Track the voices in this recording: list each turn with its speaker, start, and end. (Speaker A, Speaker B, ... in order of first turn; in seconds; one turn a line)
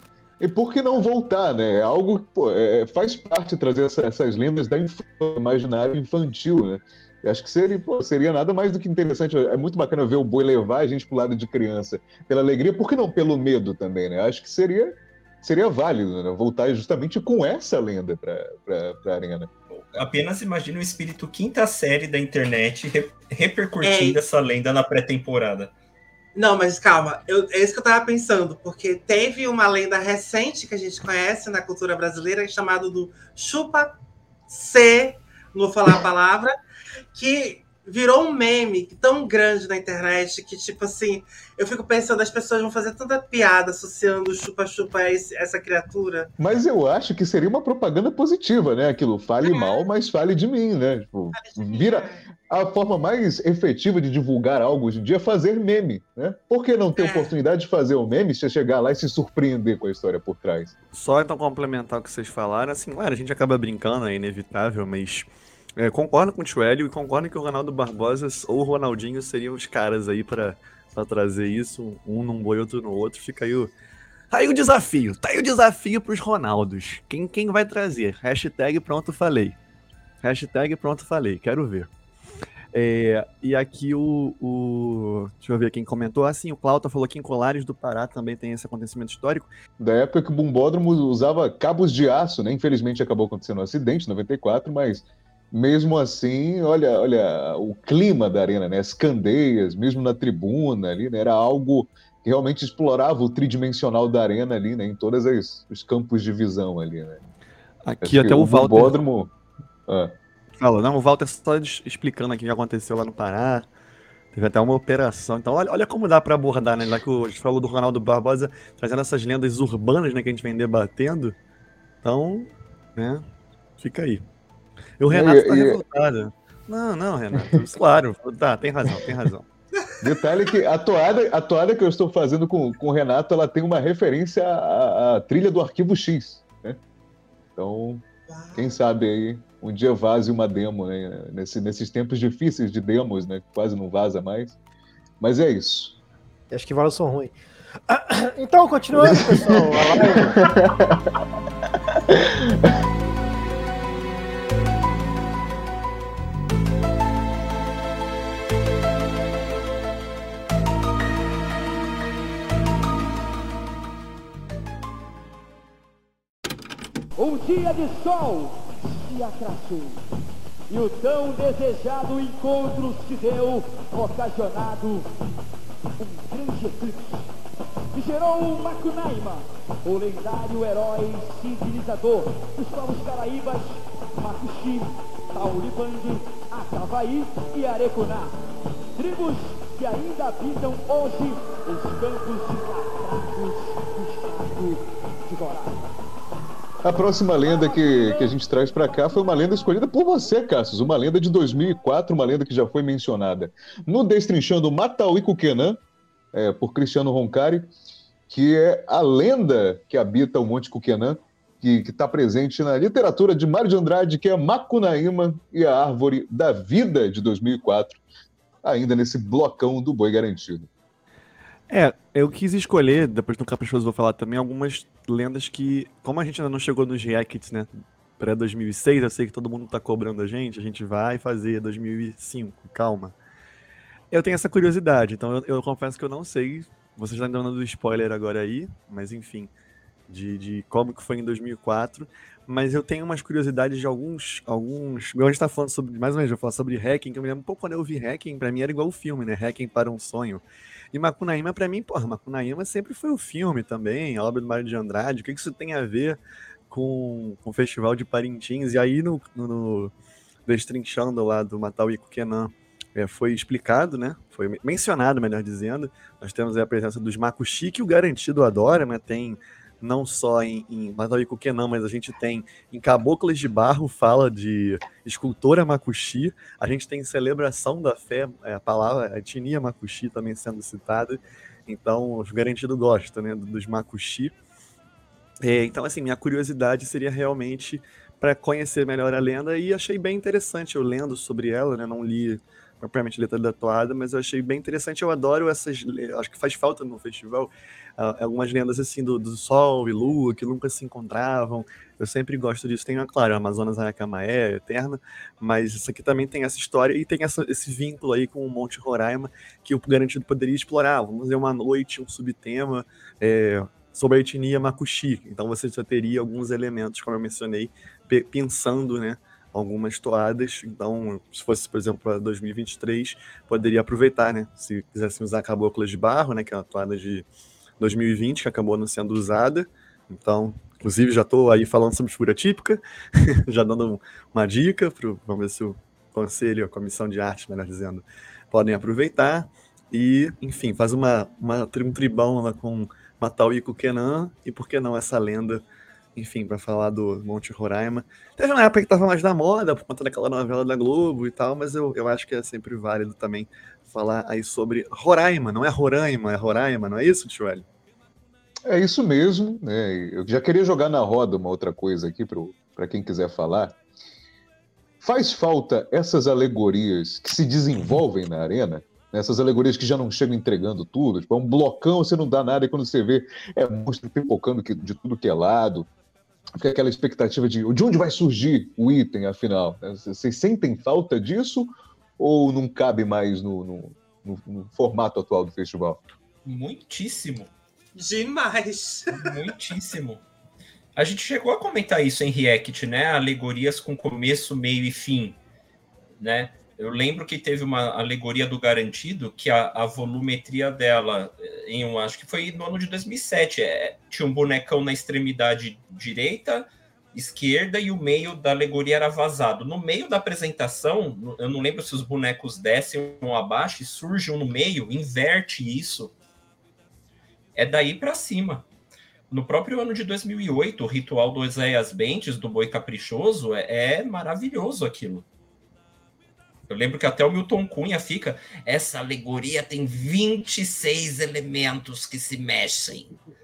Speaker A: 0.4-19.5
Speaker B: 19.9-25.7
Speaker C: 23.8-24.2
Speaker C: 26.4-34.0
Speaker C: 34.5-36.5
Speaker C: 37.1-46.3
Speaker A: 46.4-60.7
Speaker C: 49.4-49.9
Speaker C: 51.3-52.2
Speaker C: 57.0-57.3
Speaker D: 60.9-73.7
Speaker D: 74.3-79.6
Speaker D: 80.2-81.9
Speaker D: 82.7-89.5
Speaker A: 89.8-107.2
Speaker D: 107.8-109.0
Speaker A: 108.0-109.3
Speaker A: 109.9-110.1
Speaker D: 110.6-113.7
Speaker D: 114.3-121.4
Speaker D: 122.0-123.2
Speaker D: 123.8-124.2
Speaker D: 125.0-129.5
Speaker A: 125.1-125.8
Speaker A: 130.0-136.8
Speaker A: 137.6-144.6
Speaker C: 138.3-138.8
Speaker A: 145.2-146.0
Speaker E: 146.5-147.3
Speaker E: 147.9-150.4
Speaker A: 149.0-149.5
Speaker A: 150.2-151.1
Speaker A: 152.1-152.8
Speaker F: 167.2-170.0
Speaker F: 170.7-175.1
Speaker F: 176.0-177.2
Speaker F: 177.9-188.3
Speaker F: 189.0-195.9
Speaker A: 196.8-205.8
Speaker A: 206.3-207.7
Speaker A: 208.3-218.0
Speaker A: 218.6-220.7
Speaker D: 221.7-233.2
Speaker D: 234.1-239.5
Speaker D: 240.1-259.9
Speaker D: 260.5-284.3
Speaker D: 285.4-327.3
Speaker D: 327.8-345.6
Speaker D: 346.2-357.7
Speaker A: 358.7-363.8
Speaker A: 365.0-375.9
Speaker A: 376.6-386.0
Speaker B: 386.4-387.5
Speaker C: 387.9-389.4
Speaker B: 389.1-390.2
Speaker B: 391.0-395.4
Speaker B: 396.2-416.1
Speaker B: 417.6-418.7
Speaker B: 419.3-425.3
Speaker B: 426.7-433.1